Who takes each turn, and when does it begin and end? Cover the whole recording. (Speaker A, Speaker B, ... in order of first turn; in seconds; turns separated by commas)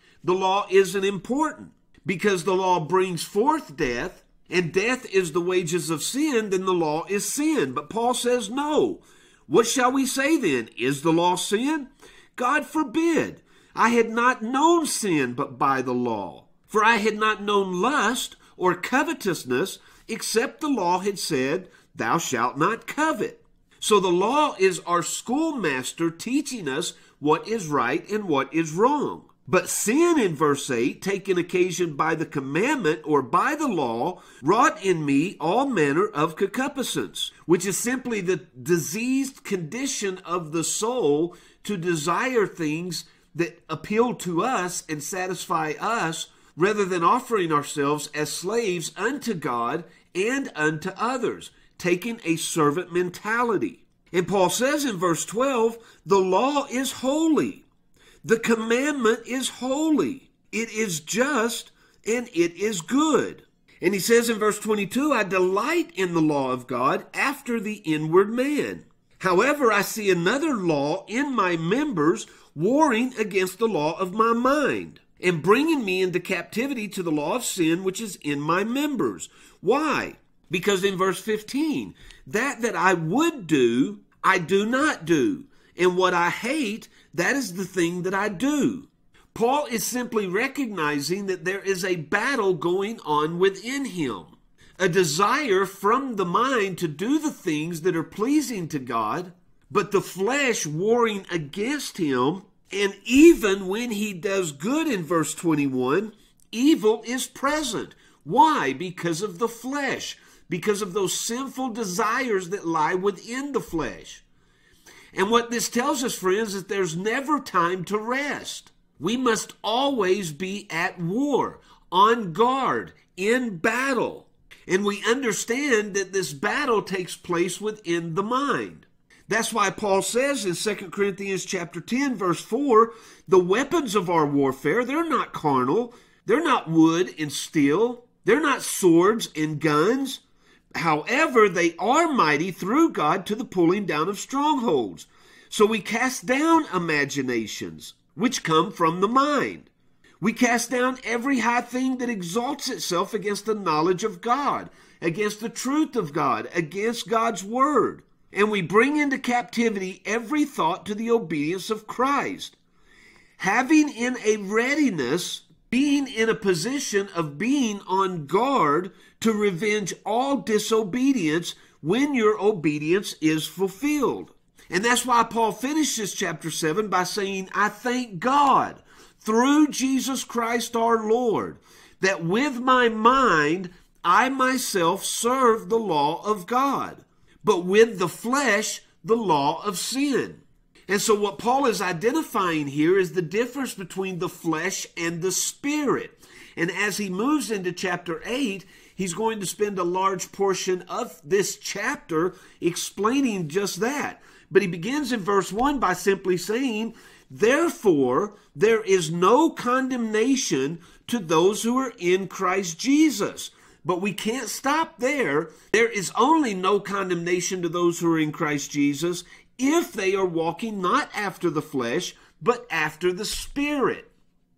Speaker A: 0.2-57.6, Speaker A: 58.2-114.2, Speaker A: 115.1-140.2, Speaker A: 140.8-149.7, Speaker A: 150.2-162.6, Speaker A: 163.4-224.1